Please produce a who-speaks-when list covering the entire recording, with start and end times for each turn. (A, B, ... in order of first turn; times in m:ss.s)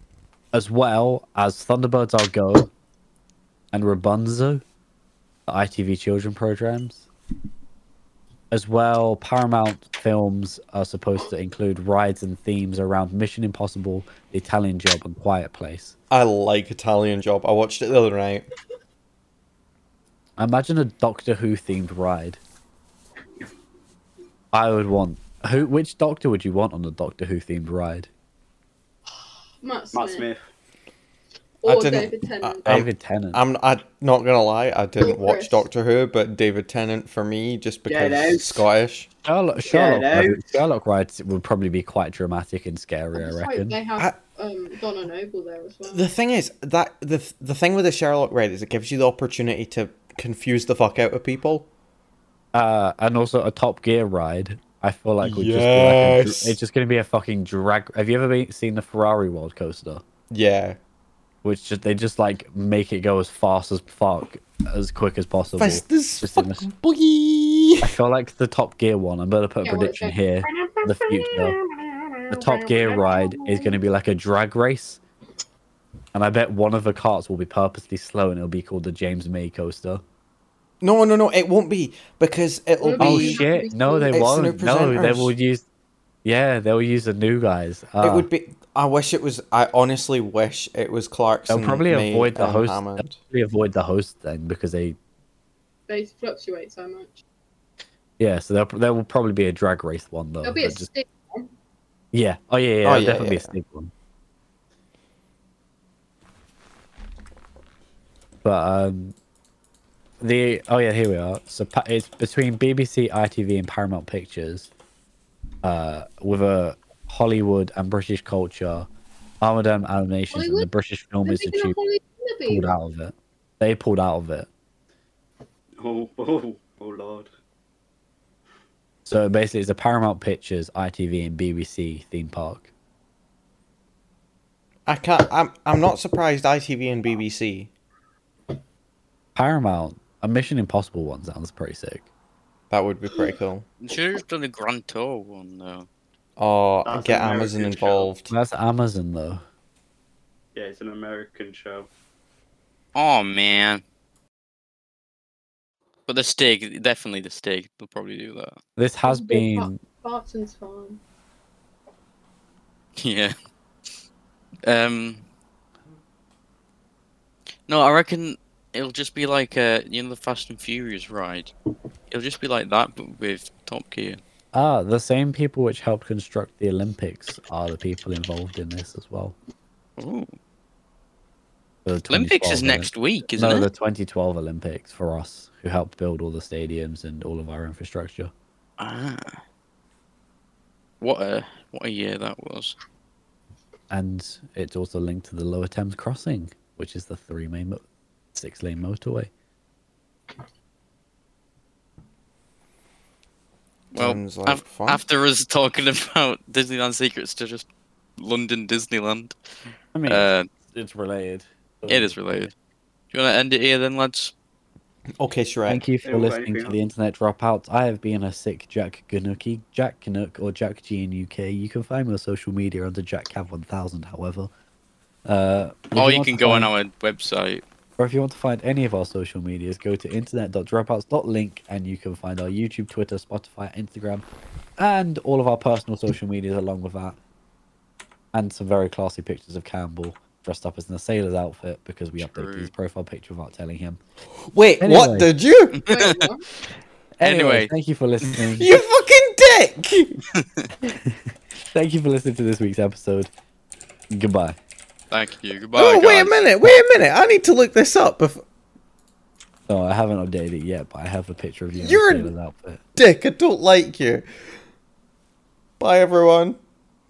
0:00.5-0:02.7 A
0:03.7-0:04.6 A
0:05.5-0:07.1 A
0:08.5-0:15.9 A
0:16.1-0:18.5 B
0:20.4-0:22.4 A
0:24.5-0:28.1 A
0:29.6-0:30.3 C
0:29.9-0:30.4 D
0:31.6-0:32.6 C
0:31.6-0:39.1 B
0:32.6-0:33.4 A
0:35.0-0:35.6 C
0:37.9-0:38.7 D
0:39.2-0:43.8 A
0:39.6-0:40.4 D
0:43.1-0:46.0 C
0:45.9-0:51.7 B
0:52.5-1:00.0 A
0:55.2-0:56.5 B
1:00.3-1:00.8 B
1:01.4-1:06.7 A
1:05.6-1:07.9 B
1:07.8-1:11.6 A
1:09.6-1:10.2 C
1:10.8-1:13.2 B
1:12.3-1:15.0 A
1:16.1-1:20.0 A
1:20.8-1:23.4 B
1:22.8-1:24.2 C
1:23.0-1:25.6 A
1:24.1-1:25.3 B
1:26.2-1:28.3 A
1:28.0-1:33.2 B
1:31.5-1:35.0 A
1:35.9-1:37.2 C
1:38.2-1:40.9 A
1:40.4-1:41.5 C
1:42.1-1:43.9 A
1:42.8-1:43.5 B
1:48.4-1:49.1 A
1:50.2-1:54.7 A
1:55.6-1:58.9 A
1:59.4-2:01.8 A
2:00.3-2:00.7 C
2:01.2-2:02.7 C
2:02.5-2:04.5 A
2:05.8-2:07.3 D
2:09.0-2:12.7 A
2:14.9-2:17.7 B
2:19.3-2:22.1 A
2:22.7-2:23.6 B
2:23.8-2:25.9 E
2:26.4-2:28.3 B
2:26.8-2:28.1 D
2:28.3-2:29.4 A
2:30.5-2:31.9 D
2:32.9-2:33.8 E
2:36.1-2:38.6 E
2:38.8-2:39.8 A
2:39.0-2:41.0 C
2:43.0-2:43.3 E
2:44.6-2:45.2 E
2:47.7-2:51.5 E
2:52.1-2:54.2 E
2:54.5-2:59.4 A
3:00.0-3:00.3 E
3:01.8-3:08.3 A
3:02.1-3:03.7 E
3:08.8-3:09.4 E
3:11.0-3:12.7 E
3:13.9-3:17.8 A
3:18.3-3:19.3 A
3:23.9-3:25.0 B
3:23.9-3:27.7 E
3:28.2-3:29.3 E
3:29.9-3:32.5 A
3:30.1-3:30.5 E
3:31.9-3:32.5 E
3:33.1-3:34.3 E
3:35.2-3:35.8 B
3:35.7-3:44.5 A
3:36.0-3:36.8 D
3:45.2-3:46.7 A
3:45.9-3:47.6 E
3:48.0-3:54.2 A
3:54.8-3:57.2 A
3:58.3-4:04.0 A
4:02.2-4:02.7 E
4:04.5-4:05.8 B
4:04.8-4:05.3 A
4:05.7-4:06.3 E
4:05.9-4:06.4 C
4:07.2-4:08.8 A
4:07.2-4:07.7 E
4:08.4-4:10.2 B
4:10.4-4:10.7 E
4:10.8-4:13.3 A
4:14.1-4:14.6 A
4:15.1-4:16.4 E
4:15.7-4:18.4 B
4:19.7-4:22.8 A
4:21.8-4:22.3 B
4:23.0-4:24.2 B
4:25.8-4:26.6 B